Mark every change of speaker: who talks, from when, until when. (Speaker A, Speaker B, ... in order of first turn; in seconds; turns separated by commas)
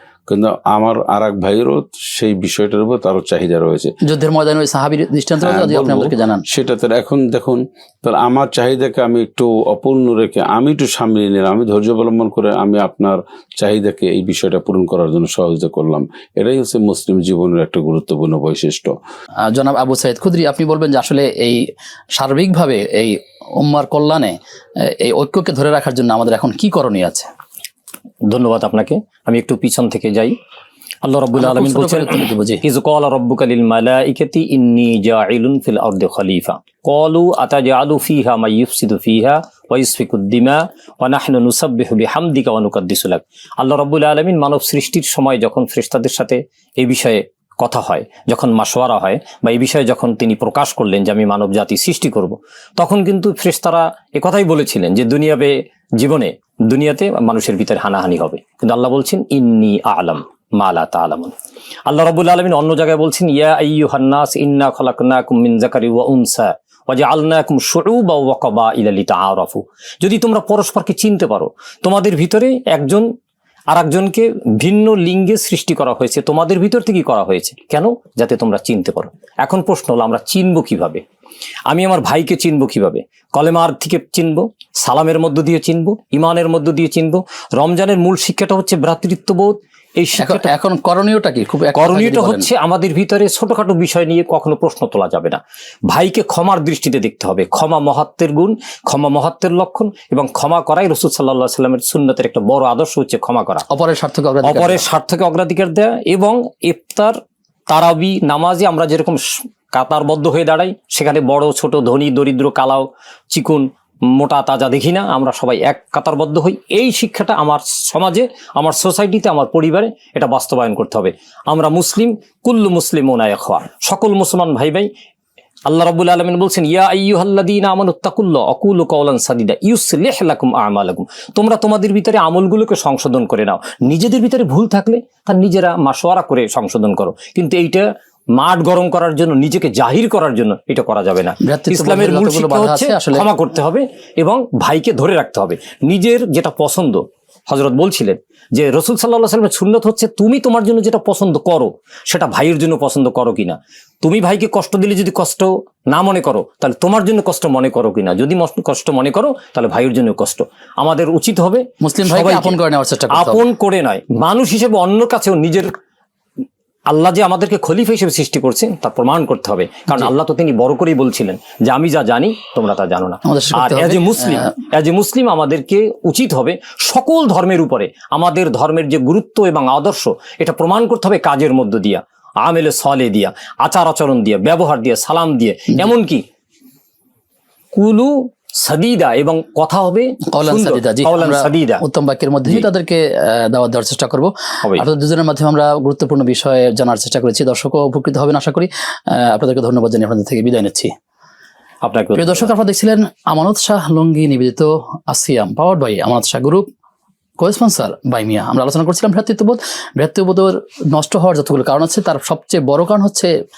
Speaker A: 0.3-3.9, Speaker B: 4.0-6.4, Speaker A: 5.4-18.9, Speaker B: 19.5-21.6, Speaker B: 22.2-24.4, Speaker B: 25.0-27.3, Speaker C: 28.3-30.3, Speaker C: 31.0-61.3, Speaker B: 31.4-32.6, Speaker C: 61.9-73.1, Speaker C: 73.7-81.0, Speaker C: 81.7-90.5, Speaker B: 90.2-92.5, Speaker C: 91.7-103.6, Speaker B: 103.7-104.8, Speaker C: 104.4-107.2, Speaker C: 107.7-109.2, Speaker C: 109.7-124.9, Speaker C: 125.7-137.8, Speaker C: 138.4-162.6, Speaker B: 141.4-143.3, Speaker B: 161.8-163.4, Speaker C: 163.1-165.7, Speaker C: 166.9-186.2, Speaker B: 173.2-174.5, Speaker C: 187.7-191.8, Speaker B: 190.3-200.9, Speaker C: 201.8-202.5, Speaker B: 202.1-206.7, Speaker B: 207.4-213.3